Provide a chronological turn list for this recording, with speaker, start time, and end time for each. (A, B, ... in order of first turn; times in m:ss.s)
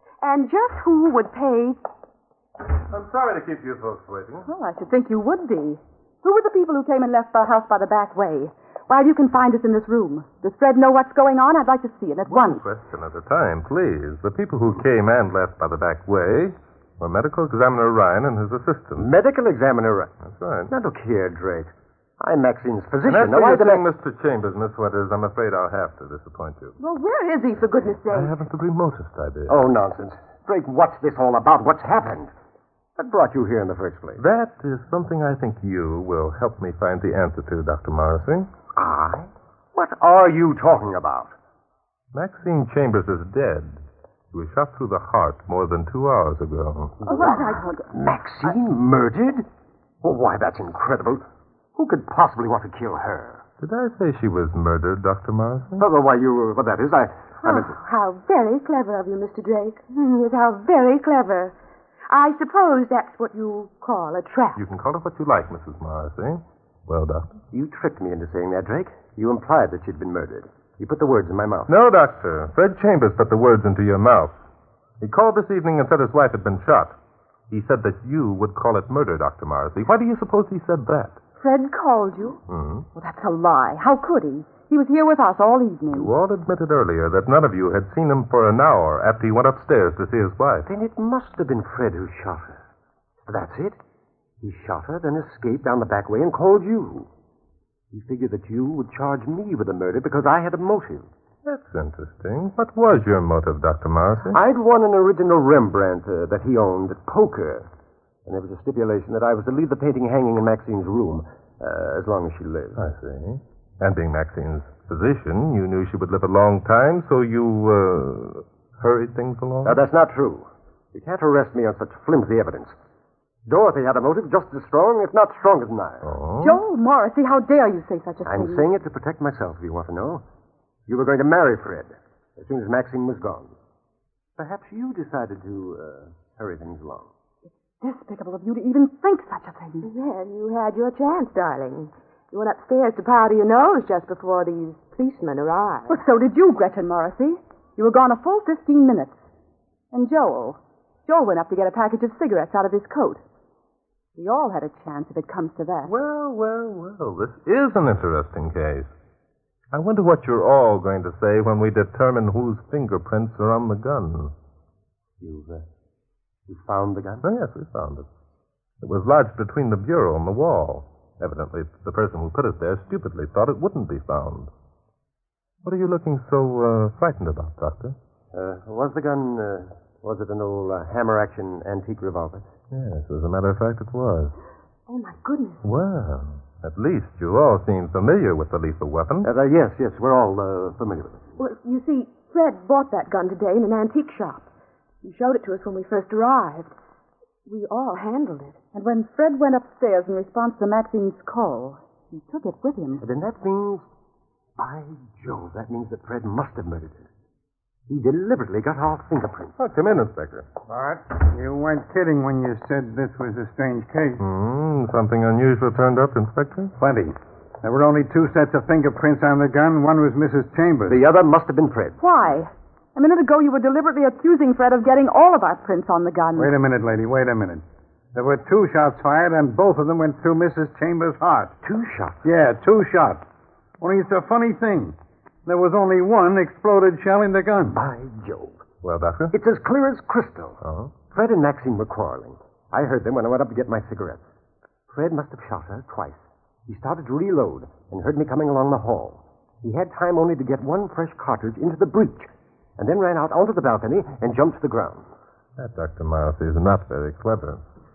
0:00.2-0:01.8 A
0:02.9-0:04.4 B
0:04.5-0:12.6 C
0:12.3-0:19.1 B
0:19.0-0:20.1 D
0:20.2-0:20.7 B
0:20.7-0:23.8 D
0:23.0-0:26.8 B
0:26.8-0:28.3 A
0:28.1-0:29.6 B
0:29.5-0:32.3 D
0:33.0-0:34.2 D
0:34.2-0:38.5 B
0:38.7-0:41.3 D
0:42.1-0:43.8 B
0:44.3-0:47.0 B
0:47.0-0:47.8 C
0:47.9-0:49.4 D
0:50.0-0:53.4 D
0:53.6-0:55.8 B
0:55.8-0:57.8 D
0:57.4-1:01.5 A
1:02.1-1:04.6 A
1:04.6-1:07.4 B
1:07.5-1:11.7 D
1:11.7-1:14.4 B
1:15.0-1:17.0 B
1:17.5-1:21.2 B
1:21.4-1:22.4 C
1:22.5-1:22.8 B
1:22.9-1:26.1 C
1:25.9-1:30.7 B
1:30.7-1:32.6 D
1:33.2-1:33.8 D
1:34.4-1:37.1 D
1:37.9-1:41.1 D
1:41.4-1:44.4 B
1:44.3-1:47.7 D
1:48.2-1:52.8 D
1:52.8-1:59.8 B
1:59.6-2:02.7 D
2:03.5-2:06.1 D
2:06.0-2:06.6 B
2:06.4-2:08.7 C
2:08.2-2:10.2 D
2:10.9-2:13.5 D
2:14.4-2:17.1 D
2:17.8-2:19.9 C
2:19.8-2:25.9 A
2:25.9-2:29.2 C
2:29.9-2:33.2 C
2:34.2-2:35.9 C
2:35.8-2:38.9 B
2:39.7-2:44.3 B
2:45.2-2:45.6 D
2:46.5-2:47.2 D
2:47.2-2:48.1 B
2:48.8-2:54.5 B
2:55.6-2:58.0 B
2:58.3-3:02.5 D
3:02.7-3:04.3 B
3:04.9-3:05.6 A
3:05.6-3:09.3 B
3:09.2-3:11.2 D
3:11.4-3:14.5 A
3:15.0-3:16.7 A
3:17.5-3:18.6 A
3:18.7-3:23.0 C
3:23.0-3:23.8 D
3:24.6-3:27.1 D
3:27.9-3:29.6 D
3:29.6-3:30.4 B
3:30.7-3:34.2 E
3:34.2-3:36.7 B
3:36.8-3:41.0 E
3:40.9-3:42.0 D
3:42.0-3:46.5 C
3:46.4-3:51.5 E
3:51.6-3:52.3 D
3:52.2-3:53.2 E
3:53.8-3:54.9 E
3:55.4-3:57.8 E
3:57.7-3:58.6 D
3:58.8-3:59.3 B
3:59.3-4:00.6 D
4:00.6-4:00.9 B
4:01.1-4:04.2 D
4:04.9-4:15.1 D
4:15.6-4:17.6 B